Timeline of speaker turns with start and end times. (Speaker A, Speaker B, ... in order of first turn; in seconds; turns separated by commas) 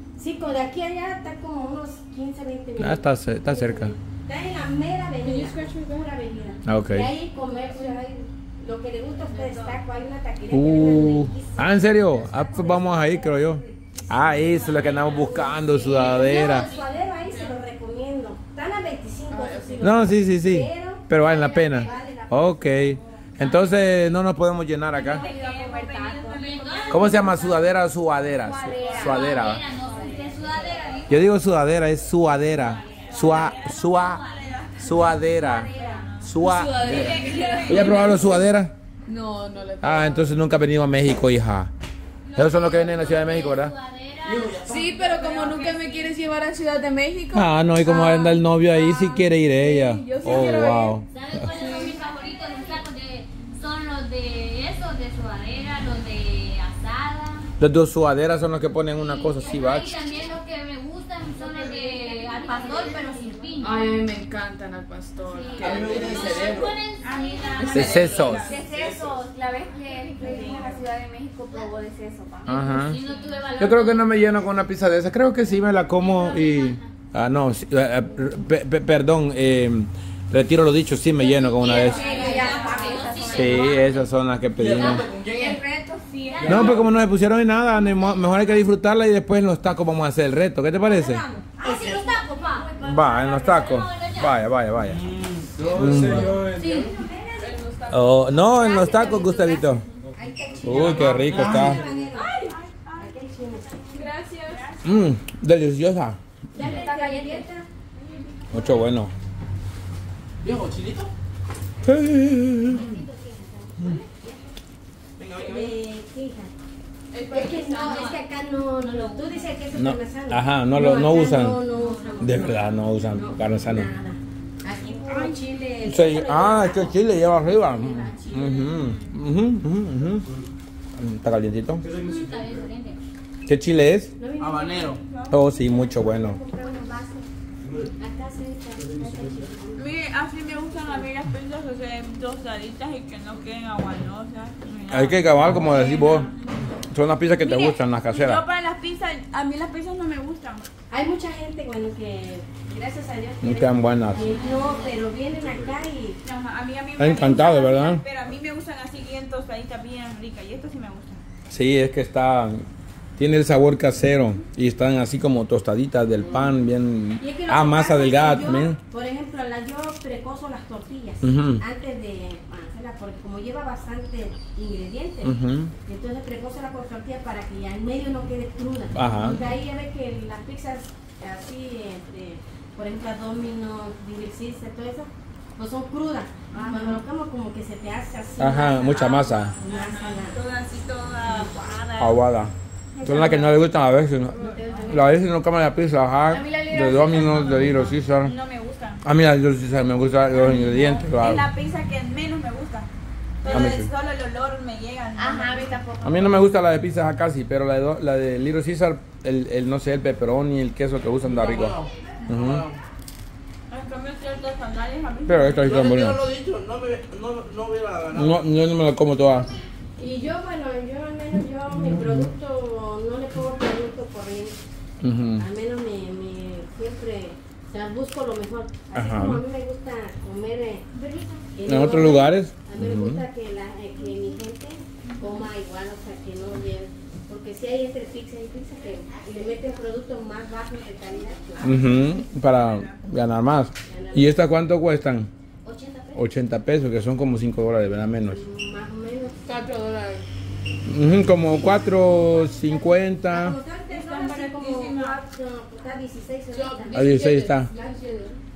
Speaker A: 0.2-23.0, Speaker B: 2.8-3.9, Speaker C: 5.2-6.1, Speaker B: 6.7-7.1, Speaker C: 9.2-9.8, Speaker B: 10.5-16.7, Speaker D: 16.1-16.8, Speaker C: 17.2-17.6, Speaker C: 19.3-20.1, Speaker B: 19.8-25.3, Speaker E: 24.9-27.4, Speaker F: 25.1-27.7, Speaker D: 26.4-27.1, Speaker B: 26.9-29.7, Speaker F: 28.3-30.3, Speaker E: 28.8-29.2, Speaker D: 29.0-31.3, Speaker B: 31.1-34.2, Speaker E: 32.6-35.1, Speaker D: 32.6-34.5, Speaker B: 34.8-35.7, Speaker F: 34.9-36.1, Speaker E: 35.7-38.3, Speaker B: 36.2-38.7, Speaker C: 36.4-38.5, Speaker C: 39.1-40.3, Speaker B: 39.8-41.7, Speaker B: 42.4-43.7, Speaker D: 42.4-46.2, Speaker G: 44.2-44.9, Speaker C: 44.6-52.0, Speaker E: 45.1-45.8, Speaker B: 47.3-51.5, Speaker D: 51.0-57.5, Speaker B: 57.6-60.0, Speaker D: 58.9-63.9, Speaker F: 61.6-63.1, Speaker C: 63.6-66.3, Speaker F: 65.2-66.4, Speaker G: 65.6-66.8, Speaker E: 66.1-66.4, Speaker D: 66.1-67.9, Speaker E: 67.0-68.7, Speaker C: 67.6-68.2, Speaker B: 67.7-68.5, Speaker F: 68.0-72.8, Speaker G: 68.3-69.2, Speaker E: 70.2-70.8, Speaker B: 72.5-73.0, Speaker D: 72.8-74.5, Speaker B: 73.6-82.1, Speaker D: 75.9-76.9, Speaker F: 81.6-83.8, Speaker A: 81.8-83.2, Speaker E: 81.9-82.9, Speaker D: 81.9-84.0, Speaker B: 83.3-85.1, Speaker G: 84.6-85.6, Speaker F: 85.0-86.8, Speaker E: 86.1-86.7, Speaker D: 86.2-86.9, Speaker G: 86.4-86.9, Speaker B: 86.5-91.2, Speaker D: 88.0-88.4, Speaker D: 91.0-94.4, Speaker A: 91.3-92.9, Speaker B: 92.8-95.0, Speaker G: 95.0-96.9, Speaker B: 95.8-96.5, Speaker A: 96.0-97.6, Speaker C: 97.4-99.1, Speaker B: 97.9-99.8, Speaker F: 98.7-99.8, Speaker A: 100.2-104.1, Speaker B: 100.6-101.8, Speaker G: 101.3-101.8, Speaker E: 102.1-103.1, Speaker C: 103.9-104.7, Speaker E: 104.5-104.9, Speaker B: 104.8-106.2, Speaker A: 106.5-107.7, Speaker C: 106.6-107.2, Speaker F: 107.1-107.4, Speaker B: 108.5-109.1, Speaker G: 110.4-111.1, Speaker B: 111.8-112.9, Speaker A: 112.8-114.4, Speaker D: 112.8-113.3, Speaker G: 115.2-115.8, Speaker A: 115.3-116.5, Speaker C: 117.1-118.0, Speaker A: 117.3-128.9, Speaker D: 117.7-119.6, Speaker B: 119.7-121.6, Speaker D: 121.7-122.6, Speaker B: 122.2-123.9, Speaker B: 125.8-130.3, Speaker B: 131.0-131.8, Speaker D: 131.9-133.0, Speaker B: 133.5-134.1, Speaker A: 134.2-137.3, Speaker G: 134.4-135.0, Speaker E: 135.0-135.4, Speaker B: 135.3-136.4, Speaker A: 138.0-139.9, Speaker E: 139.8-146.5, Speaker A: 140.7-141.0, Speaker B: 144.9-146.3, Speaker B: 146.9-148.4, Speaker E: 147.3-150.7, Speaker A: 150.9-156.2, Speaker B: 153.4-154.3, Speaker D: 154.3-154.9, Speaker E: 156.2-161.2, Speaker B: 157.0-158.0, Speaker B: 161.5-162.7, Speaker B: 163.2-168.8, Speaker A: 167.2-190.4, Speaker B: 171.2-171.6, Speaker B: 175.2-175.7, Speaker B: 178.9-179.4, Speaker F: 186.5-186.9, Speaker B: 188.4-189.6, Speaker E: 188.9-192.2, Speaker B: 192.0-198.3, Speaker A: 193.0-193.5, Speaker A: 194.3-195.2, Speaker E: 194.7-195.0, Speaker F: 196.3-197.9, Speaker E: 198.2-199.0, Speaker B: 199.0-201.5, Speaker E: 200.3-202.9, Speaker E: 203.4-205.7, Speaker B: 203.5-203.9, Speaker F: 205.2-206.4, Speaker B: 206.0-212.7, Speaker G: 211.2-212.8, Speaker E: 213.7-215.7, Speaker B: 215.3-216.2, Speaker G: 215.6-218.5, Speaker B: 218.1-219.5, Speaker A: 220.0-224.6, Speaker B: 225.0-225.4, Speaker A: 225.4-230.9, Speaker B: 228.9-229.4, Speaker D: 231.0-231.3, Speaker A: 231.5-242.0, Speaker B: 231.7-233.2, Speaker E: 235.1-235.4, Speaker B: 241.6-245.3, Speaker E: 241.7-243.0, Speaker A: 243.9-244.5, Speaker A: 245.6-246.2, Speaker B: 246.2-248.4, Speaker A: 248.3-249.5, Speaker C: 249.5-250.3, Speaker B: 250.9-253.6, Speaker A: 252.0-257.2, Speaker E: 253.9-255.2, Speaker C: 256.5-258.4, Speaker B: 256.9-257.7